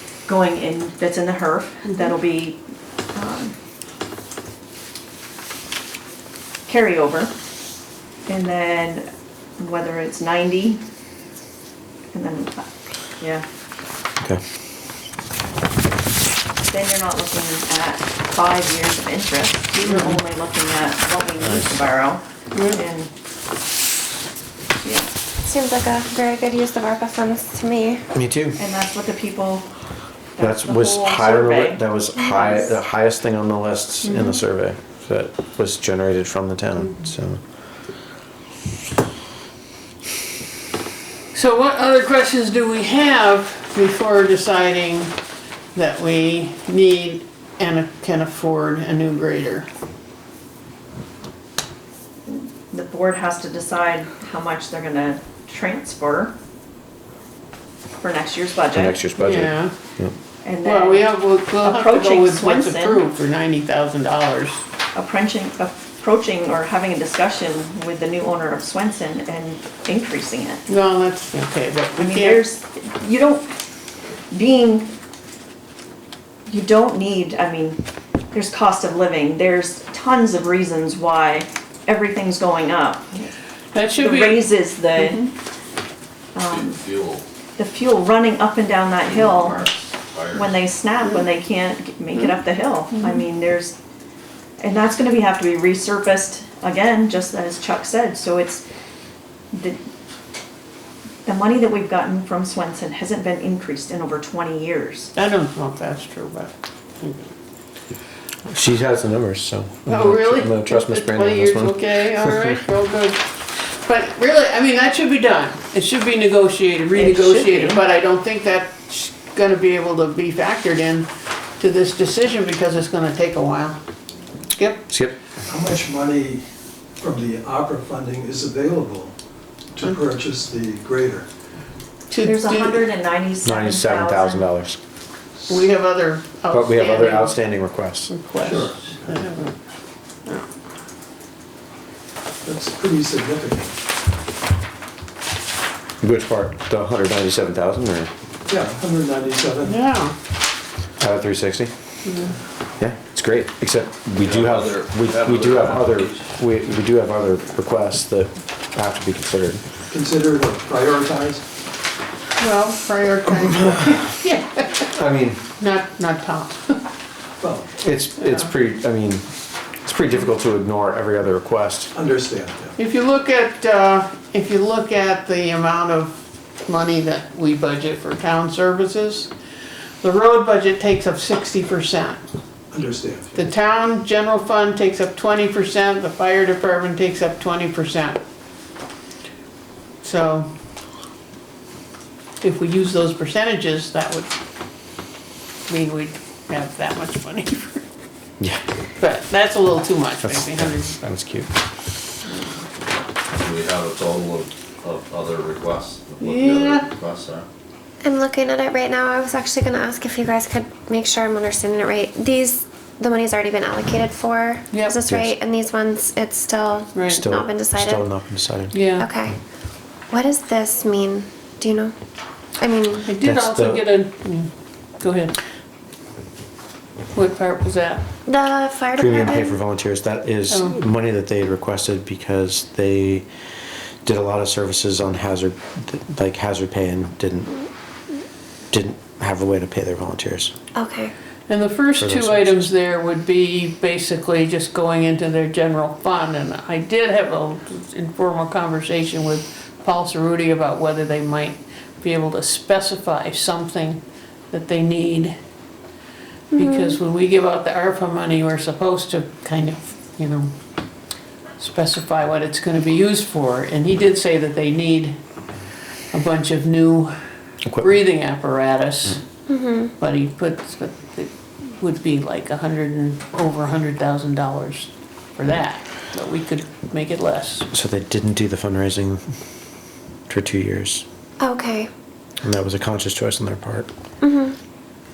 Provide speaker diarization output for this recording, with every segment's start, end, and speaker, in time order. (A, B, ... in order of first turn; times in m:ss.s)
0:00.3-0:02.6 A
0:03.1-0:03.6 A
0:06.7-0:07.3 A
0:08.3-0:10.8 A
0:12.1-0:12.7 A
0:13.2-0:13.4 A
0:16.6-0:23.1 A
0:22.5-0:22.8 B
0:24.8-0:25.1 A
0:25.4-0:28.0 C
0:28.1-0:28.6 D
0:28.6-0:29.7 A
0:30.4-0:31.8 A
0:30.4-0:37.4 D
0:34.0-0:34.4 A
0:41.3-0:45.2 B
0:45.7-0:49.7 B
0:52.3-0:56.3 A
0:58.0-0:59.0 A
0:58.7-1:00.2 D
0:59.2-0:59.7 B
1:00.4-1:03.0 A
1:00.7-1:04.6 B
1:05.0-1:10.7 A
1:10.7-1:12.4 B
1:12.0-1:13.6 A
1:14.3-1:14.9 A
1:16.5-1:17.8 A
1:18.3-1:23.3 A
1:23.7-1:24.4 B
1:24.0-1:25.3 A
1:26.4-1:26.8 A
1:26.5-1:27.2 E
1:27.6-1:29.7 A
1:29.4-1:30.4 E
1:30.3-1:33.8 A
1:34.6-1:38.6 A
1:39.5-1:39.8 A
1:41.3-1:45.1 A
1:45.2-1:47.3 B
1:48.5-1:52.6 D
1:49.9-2:03.8 B
1:56.9-1:57.8 A
2:04.6-2:04.8 B
2:04.9-2:05.2 D
2:05.4-2:06.4 F
2:07.0-2:09.2 F
2:09.7-2:11.3 F
2:12.1-2:12.8 B
2:12.2-2:14.5 A
2:13.4-2:14.8 D
2:15.5-2:17.4 B
2:16.5-2:18.1 D
2:18.1-2:19.5 B
2:18.4-2:19.3 F
2:22.4-2:23.7 F
2:26.0-2:28.1 D
2:28.5-2:29.9 F
2:29.7-2:30.2 B
2:31.0-2:31.7 D
2:32.8-2:39.6 D
2:34.2-2:36.2 E
2:39.9-2:41.4 F
2:42.4-2:44.8 B
2:44.9-2:45.4 D
2:45.6-2:46.8 B
2:47.4-2:47.8 F
2:47.8-2:49.3 D
2:49.8-2:51.9 D
2:51.9-2:52.8 F
2:52.8-2:59.3 B
3:00.0-3:02.2 B
3:02.7-3:03.3 F
3:03.3-3:08.2 B
3:10.0-3:10.5 B
3:12.4-3:14.4 B
3:15.7-3:17.8 B
3:18.4-3:18.7 D
3:19.0-3:21.0 B
3:20.2-3:21.5 D
3:23.4-3:27.4 E
3:26.2-3:26.9 B
3:28.0-3:38.0 C
3:34.7-3:35.0 B
3:35.0-3:35.4 D
3:37.0-3:37.2 B
3:37.1-3:38.8 D
3:38.7-3:39.1 B
3:39.0-3:39.4 C
3:40.1-3:42.0 C
3:42.6-3:43.1 C
3:43.1-3:45.4 B
3:43.2-3:43.8 D
3:47.1-3:48.0 B
3:48.3-3:49.6 C
3:49.0-3:53.3 D
3:54.0-3:57.6 D
3:58.7-4:00.5 D
4:00.8-4:01.1 C
4:01.5-4:15.4 B
4:02.0-4:02.7 D
4:16.5-4:17.0 C
4:16.6-4:20.6 B
4:21.6-4:25.2 B
4:26.1-4:27.2 B
4:27.8-4:29.2 B
4:29.5-4:29.9 C
4:30.0-4:37.7 B
4:37.7-4:39.2 D
4:40.3-4:41.0 D
4:41.4-4:41.9 C
4:42.4-4:43.9 D
4:44.2-4:44.6 C